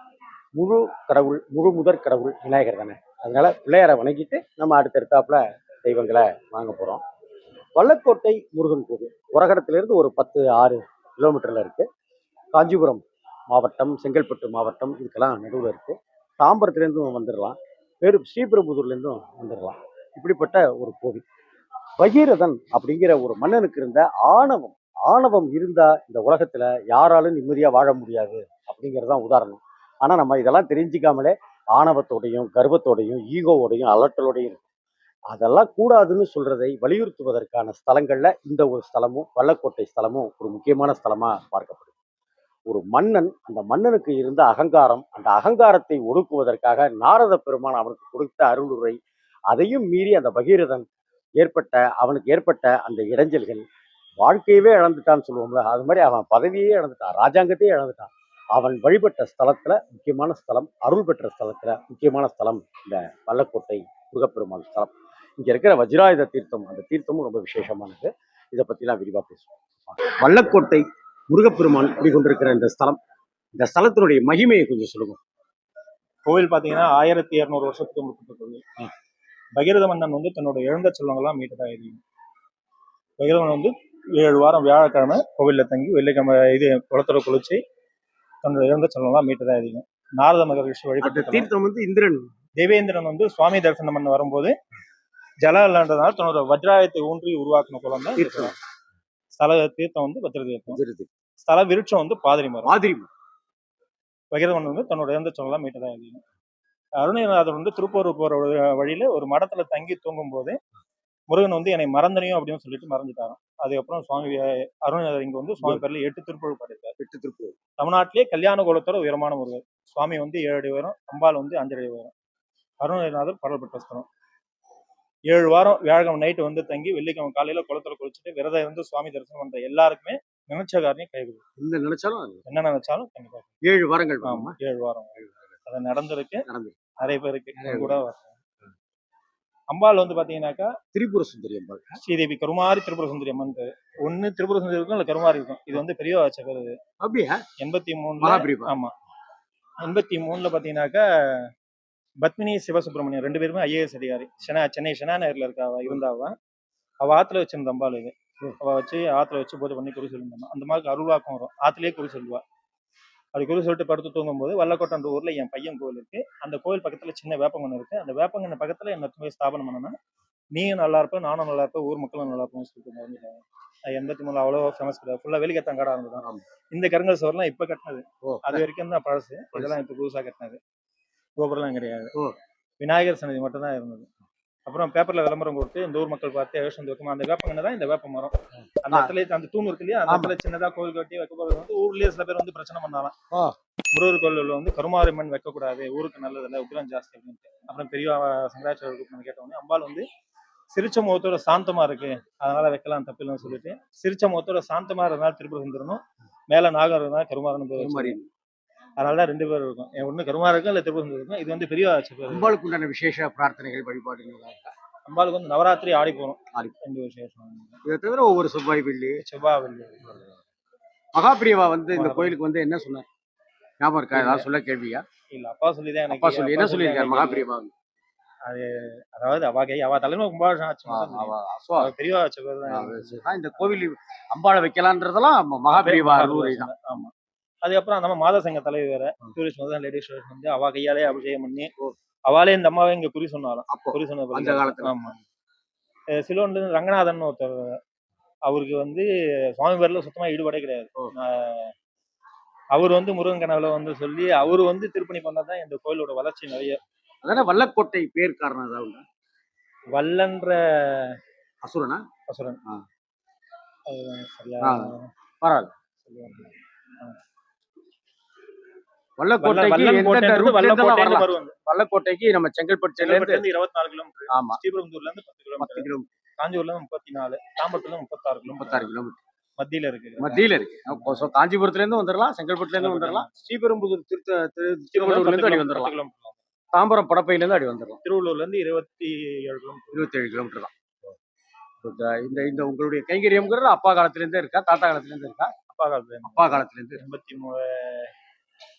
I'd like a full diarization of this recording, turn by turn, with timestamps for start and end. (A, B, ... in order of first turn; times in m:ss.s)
0:00.5-0:07.0 A
0:07.8-0:11.8 A
0:12.5-0:21.2 A
0:22.0-0:34.7 A
0:35.3-0:41.9 A
0:42.7-0:49.0 A
0:49.5-0:50.8 A
0:51.4-0:53.6 A
0:54.2-1:13.0 A
1:13.6-1:15.2 A
1:16.3-1:18.6 B
1:19.6-1:22.0 B
1:23.2-1:27.6 B
1:28.4-1:31.5 B
1:31.0-1:32.3 A
1:32.6-1:34.5 B
1:35.4-1:38.5 B
1:38.2-1:38.5 A
1:39.4-1:40.8 B
1:40.7-1:41.1 A
1:41.4-1:42.7 B
1:42.6-1:43.1 A
1:44.3-1:46.2 B
1:47.0-1:50.6 B
1:51.3-1:57.0 B
1:57.0-1:57.5 A
1:57.8-2:02.1 B
2:02.8-2:04.0 B
2:05.3-2:11.4 B
2:11.6-2:12.4 A
2:12.4-2:13.5 B
2:13.6-2:14.5 A
2:14.2-2:16.5 B
2:16.5-2:16.8 A
2:17.0-2:18.4 B
2:17.6-2:18.0 A
2:19.7-2:20.7 B
2:20.9-2:22.0 A
2:22.0-2:26.8 B
2:27.0-2:27.4 A
2:27.6-2:28.9 B
2:28.2-2:28.7 A
2:29.8-2:31.5 B
2:32.2-2:36.3 B
2:37.0-2:42.4 B
2:43.3-2:49.9 B
2:50.5-3:00.6 B
2:58.2-2:58.6 A
3:01.4-3:02.1 B
3:02.8-3:04.1 B
3:04.6-3:13.1 B
3:10.1-3:10.3 A
3:13.9-3:20.0 B
3:20.7-3:28.2 B
3:27.8-3:28.2 A
3:29.0-3:32.5 B
3:32.3-3:34.7 A
3:35.0-3:37.8 B
3:37.8-3:39.2 A
3:39.2-3:40.1 B
3:41.1-3:43.1 A
3:41.9-3:42.4 B
3:43.8-3:45.0 A
3:44.1-3:44.5 B
3:45.3-3:47.5 B
3:46.1-3:47.7 A
3:48.4-3:53.8 B
3:50.9-3:51.9 A
3:52.7-3:56.9 A
3:55.7-3:57.1 B
3:57.6-4:01.7 B
4:02.3-4:05.1 B
4:03.7-4:05.2 A
4:06.2-4:07.8 B
4:08.4-4:11.7 B
4:12.7-4:16.8 B
4:17.2-4:19.0 A
4:19.9-4:21.2 B
4:21.6-4:22.0 A
4:22.3-4:22.6 B
4:23.9-4:25.1 B
4:24.6-4:25.7 A
4:26.0-4:26.5 B
4:29.2-4:33.4 A
4:29.4-4:31.6 B
4:33.0-4:38.9 B
4:34.3-4:34.6 A
4:35.6-4:36.1 A
4:38.5-4:39.2 A
4:39.6-4:41.3 B
4:40.2-4:45.9 A
4:42.7-4:43.3 B
4:44.9-4:46.4 B
4:46.7-4:48.0 A
4:48.0-4:50.1 B
4:49.9-4:50.7 A
4:51.8-4:55.5 A
4:55.7-4:58.1 B
4:56.2-4:57.0 A